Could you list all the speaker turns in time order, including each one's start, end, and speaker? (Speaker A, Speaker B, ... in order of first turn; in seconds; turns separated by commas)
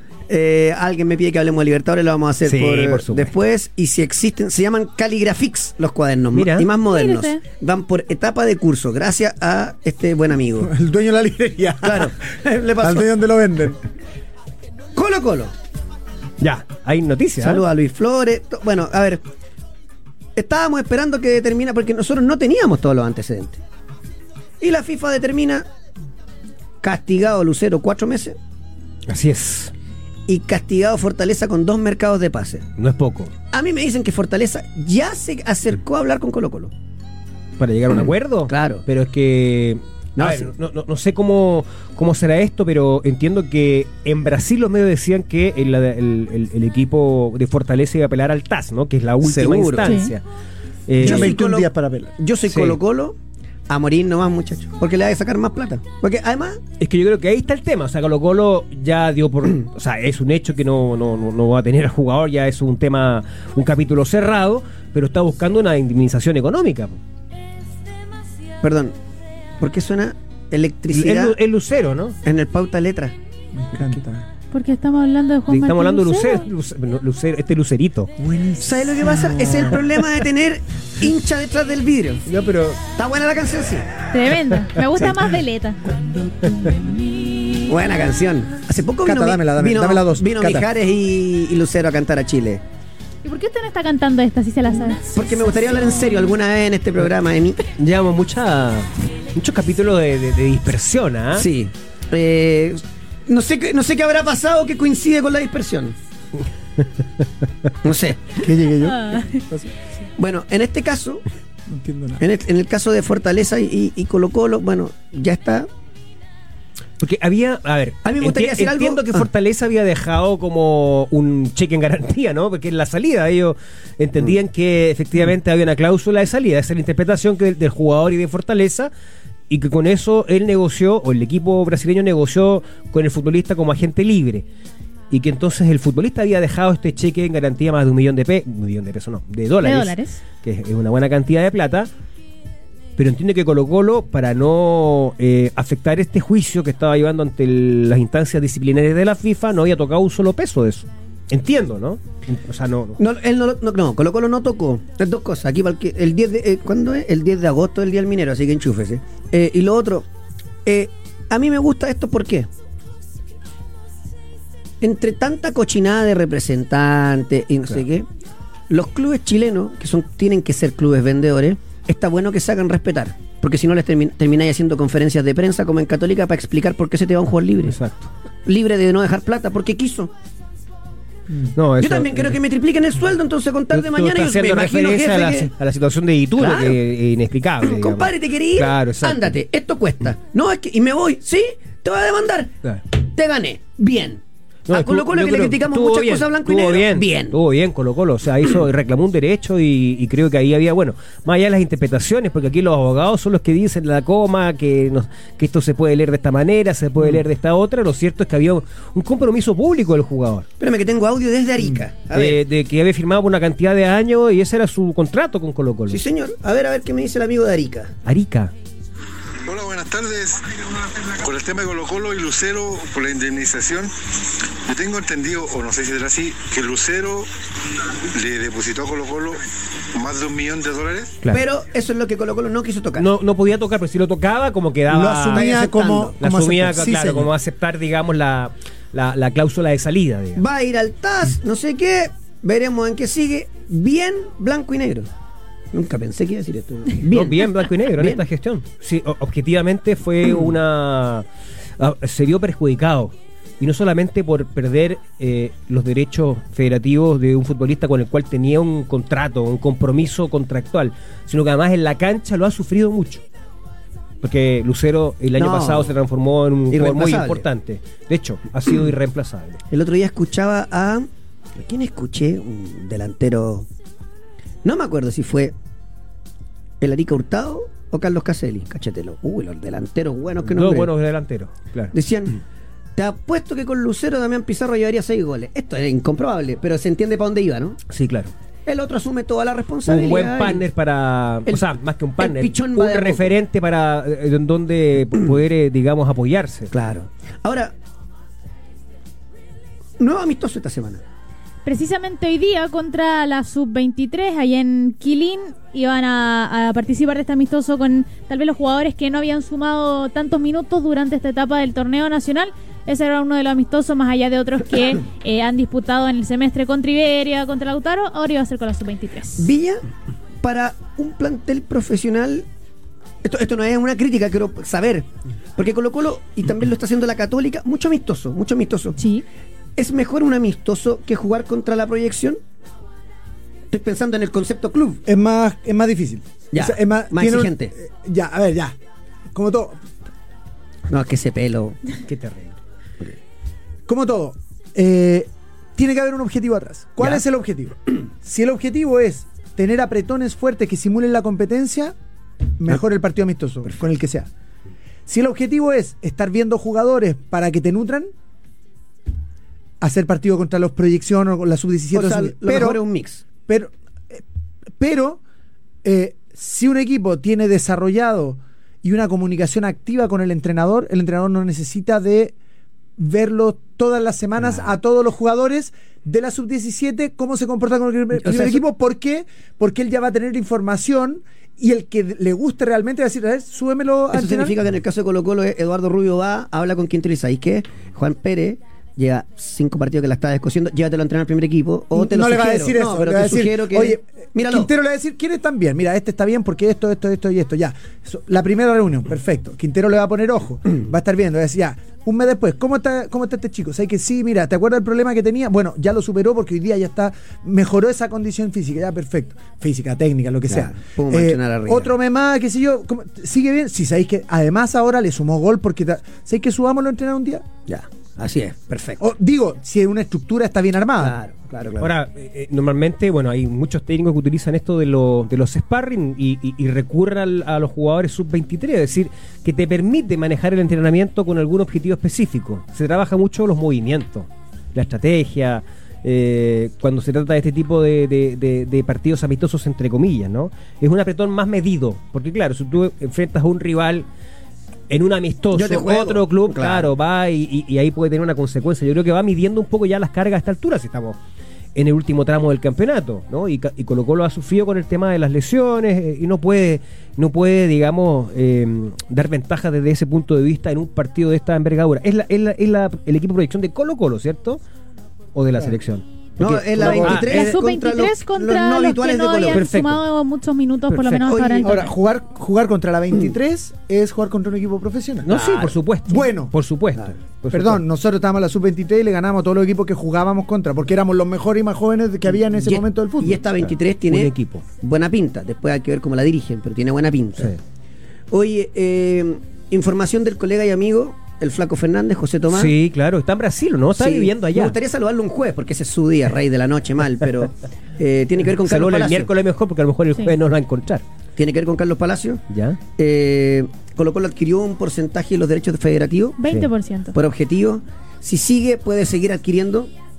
Speaker A: 0.3-10.7, Speaker B: 2.4-3.3, Speaker B: 6.3-6.7, Speaker C: 6.9-7.4, Speaker D: 10.6-12.2, Speaker A: 11.8-13.1, Speaker D: 12.8-13.8, Speaker A: 14.9-15.5, Speaker B: 16.4-17.6, Speaker A: 17.4-19.2, Speaker A: 20.4-23.6, Speaker A: 24.6-25.7, Speaker A: 26.8-28.4, Speaker B: 29.1-29.7, Speaker A: 30.3-32.7, Speaker B: 32.8-33.3, Speaker A: 33.5-36.7, Speaker B: 37.6-50.2, Speaker A: 38.5-38.8, Speaker A: 40.2-40.5, Speaker A: 49.2-50.0, Speaker C: 49.8-50.1, Speaker B: 50.9-51.3, Speaker D: 51.0-52.1, Speaker A: 51.0-53.2, Speaker B: 52.5-52.8, Speaker A: 53.7-56.6, Speaker B: 56.8-67.0, Speaker A: 68.6-69.0, Speaker A: 69.6-71.3, Speaker B: 70.9-72.2, Speaker A: 72.2-73.2, Speaker D: 73.5-74.3, Speaker C: 74.5-76.4, Speaker B: 75.5-78.1, Speaker D: 78.2-80.0, Speaker A: 78.6-82.2, Speaker D: 82.3-82.8, Speaker A: 82.9-83.9, Speaker C: 84.1-85.8, Speaker D: 85.8-87.3, Speaker A: 87.7-92.6, Speaker D: 89.0-90.7, Speaker C: 93.2-95.2, Speaker A: 95.1-97.6, Speaker B: 97.8-101.5, Speaker A: 101.3-106.0, Speaker A: 107.8-108.4, Speaker D: 108.4-109.8, Speaker C: 108.8-109.4, Speaker A: 110.2-111.2, Speaker D: 111.7-112.2, Speaker A: 112.2-115.7, Speaker B: 117.0-128.9, Speaker A: 118.0-119.3, Speaker B: 129.5-134.4, Speaker B: 135.1-141.9, Speaker C: 139.6-140.2, Speaker B: 143.0-153.0, Speaker A: 153.0-160.1, Speaker A: 160.7-162.5, Speaker A: 164.8-168.1, Speaker A: 168.7-177.8, Speaker B: 177.7-178.1, Speaker A: 178.4-180.1, Speaker B: 181.6-182.4, Speaker A: 181.8-185.5, Speaker B: 183.7-189.3, Speaker A: 186.4-186.8, Speaker A: 187.6-197.3, Speaker B: 194.7-210.5, Speaker A: 210.6-212.4, Speaker B: 212.1-216.0, Speaker A: 215.9-217.9, Speaker B: 218.1-218.5, Speaker E: 219.4-223.9, Speaker E: 224.7-227.3, Speaker E: 228.1-229.4, Speaker E: 229.9-231.2, Speaker A: 231.3-233.1, Speaker B: 233.0-235.6, Speaker D: 234.9-237.3, Speaker A: 235.3-236.2, Speaker B: 236.2-240.4, Speaker A: 240.4-245.1, Speaker A: 245.7-248.2, Speaker B: 247.0-251.2, Speaker B: 251.8-263.2, Speaker B: 264.2-269.6, Speaker A: 265.4-265.9, Speaker A: 266.7-267.4, Speaker A: 269.7-273.7, Speaker A: 274.6-275.6, Speaker A: 276.8-280.9, Speaker B: 280.4-281.9, Speaker A: 281.9-282.4, Speaker A: 282.9-287.8, Speaker B: 287.9-288.3, Speaker A: 288.7-290.6, Speaker B: 289.9-296.7, Speaker A: 292.2-293.3, Speaker A: 296.7-297.7, Speaker A: 300.0-301.0, Speaker C: 301.6-319.5, Speaker A: 319.4-319.8, Speaker A: 320.4-322.5, Speaker A: 323.2-329.0, Speaker C: 329.0-329.2, Speaker A: 329.8-332.4, Speaker A: 333.7-335.0, Speaker D: 335.1-338.8, Speaker A: 336.5-337.7, Speaker D: 339.3-339.8, Speaker A: 340.9-341.9, Speaker B: 342.1-342.6, Speaker D: 343.9-351.9, Speaker D: 352.6-354.3, Speaker D: 355.1-358.1, Speaker D: 359.8-362.8, Speaker A: 361.9-363.2, Speaker D: 363.5-364.2, Speaker D: 364.8-365.2, Speaker D: 365.8-372.3, Speaker D: 373.0-384.6, Speaker A: 378.2-378.6, Speaker A: 384.1-394.7, Speaker D: 391.9-417.4, Speaker A: 410.5-411.9, Speaker A: 417.7-419.1, Speaker D: 419.0-421.2, Speaker A: 421.0-421.9, Speaker B: 421.8-444.1, Speaker B: 444.9-451.2, Speaker A: 445.5-446.9, Speaker B: 451.8-464.6, Speaker B: 465.3-467.5, Speaker A: 466.4-469.6, Speaker D: 466.4-467.3, Speaker C: 467.1-471.9, Speaker B: 469.5-470.0, Speaker B: 470.9-471.2, Speaker A: 471.2-471.8, Speaker D: 471.6-475.3, Speaker B: 475.2-477.8, Speaker A: 475.3-475.8, Speaker D: 476.1-476.5, Speaker D: 477.5-483.4, Speaker A: 482.6-487.6, Speaker B: 483.6-484.6, Speaker A: 488.3-492.7, Speaker B: 492.5-494.8, Speaker A: 494.0-499.3, Speaker B: 498.6-501.0, Speaker A: 501.4-502.4, Speaker B: 502.5-502.8, Speaker A: 502.9-506.4, Speaker C: 506.4-507.2, Speaker A: 507.1-509.9